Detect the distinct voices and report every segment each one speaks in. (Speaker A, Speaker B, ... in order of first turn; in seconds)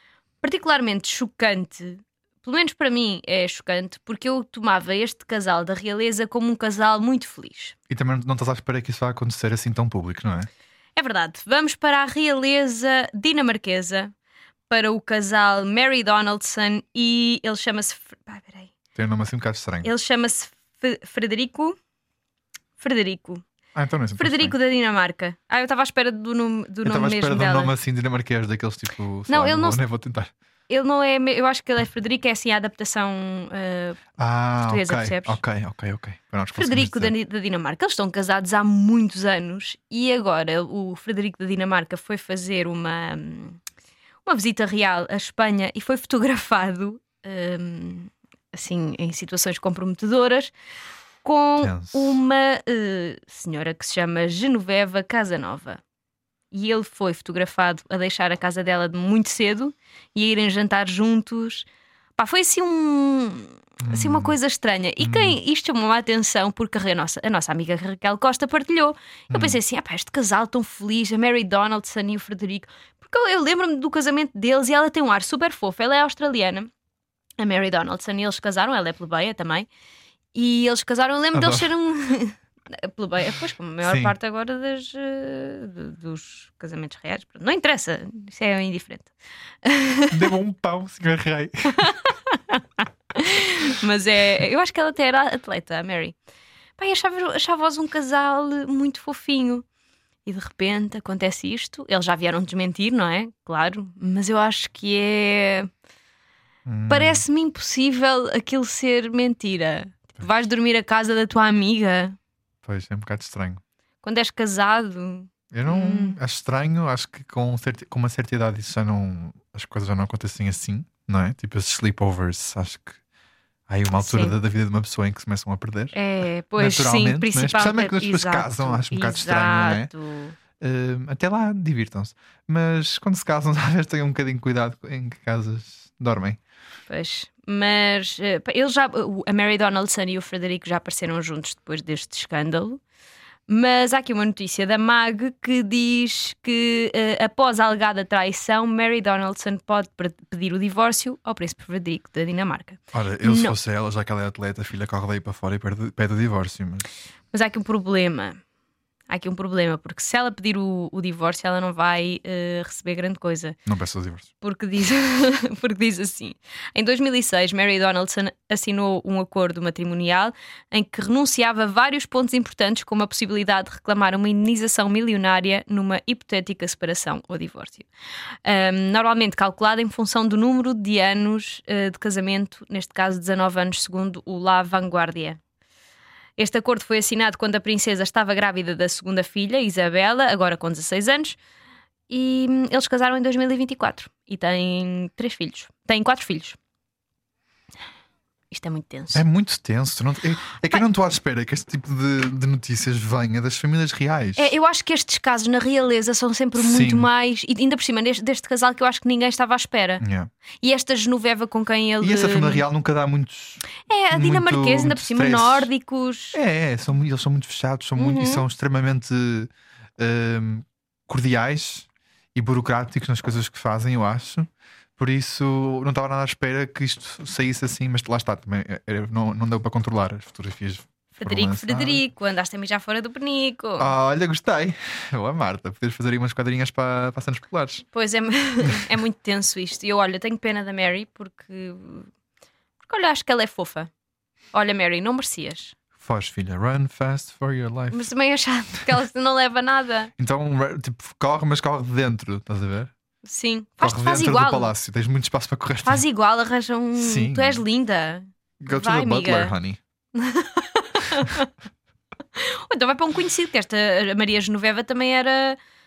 Speaker A: 0.4-7.8, 11.0-14.1, 14.7-18.7, 19.8-21.8, 22.8-23.4, 24.2-27.7, 29.3-29.8, 30.7-34.0, 34.7-35.4, 36.5-43.6, 44.2-50.5, 51.2-55.8, 56.5-76.7, 77.4-79.7, 80.3-89.1, 89.6-90.1, 91.8-96.2, 96.8-99.7, 100.2-105.7, 106.9-112.2, 114.0-116.2, 123.9-124.4, 125.9-130.3, 136.9-142.8, 143.5-153.6, 157.3-158.4, 159.1-163.6, 164.4-177.9, 178.4-185.4, 186.4-191.4, 192.1-196.6, 198.5-199.2, 204.4-210.0, 210.6-212.6, 213.9-216.4, 218.0-218.4, 231.2-233.9, 237.9-242.1, 242.8-243.9, 244.5-245.7, 247.9-250.1, 253.2-254.7, 255.8-259.6, 260.2-261.5, 262.4-265.6
Speaker B: 7.9-10.5, 18.9-19.9, 23.8-24.6, 26.8-30.3, 34.2-37.1, 51.6-52.2, 63.8-64.4, 65.0-65.4, 69.3-69.6, 81.3-81.7, 83.8-84.1, 90.1-91.9, 106.7-107.2, 112.7-113.6, 115.5-123.0, 123.7-126.0, 126.6-129.9, 130.6-136.4, 152.9-156.9, 163.7-164.3, 199.1-204.5, 206.6-207.1, 210.0-210.3, 212.0-215.7, 216.3-224.5, 225.0-232.1, 233.8-237.8, 246.0-248.1, 250.2-252.9, 253.8-256.1, 257.0-257.6, 258.6-259.8